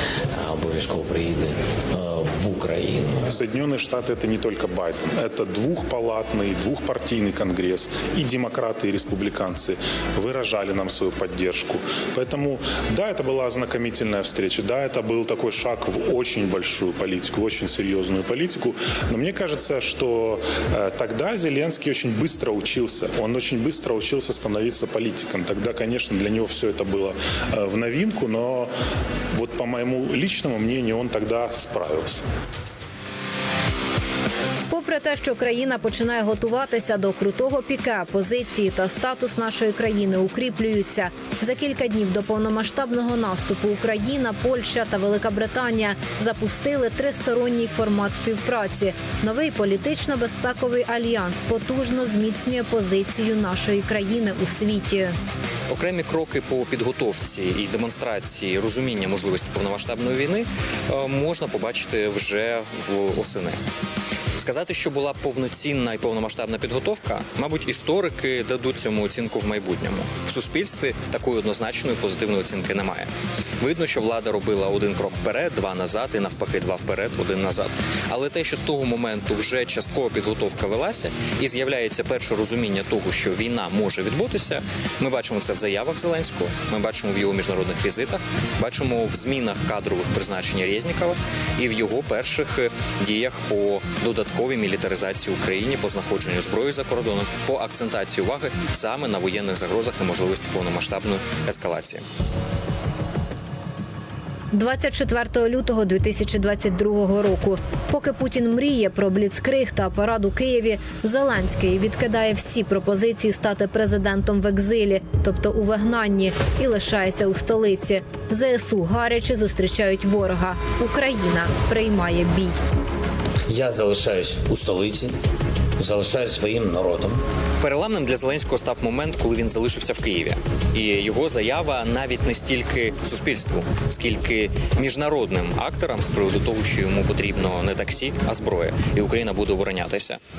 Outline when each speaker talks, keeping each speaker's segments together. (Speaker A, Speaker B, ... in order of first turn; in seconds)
Speaker A: 0.4-3.2, 34.7-55.1, 104.5-122.6
Speaker B: 3.3-28.7, 29.3-32.2
Speaker C: 55.7-63.6, 64.4-102.0, 127.6-140.2
Speaker D: 123.5-125.1, 125.8-127.2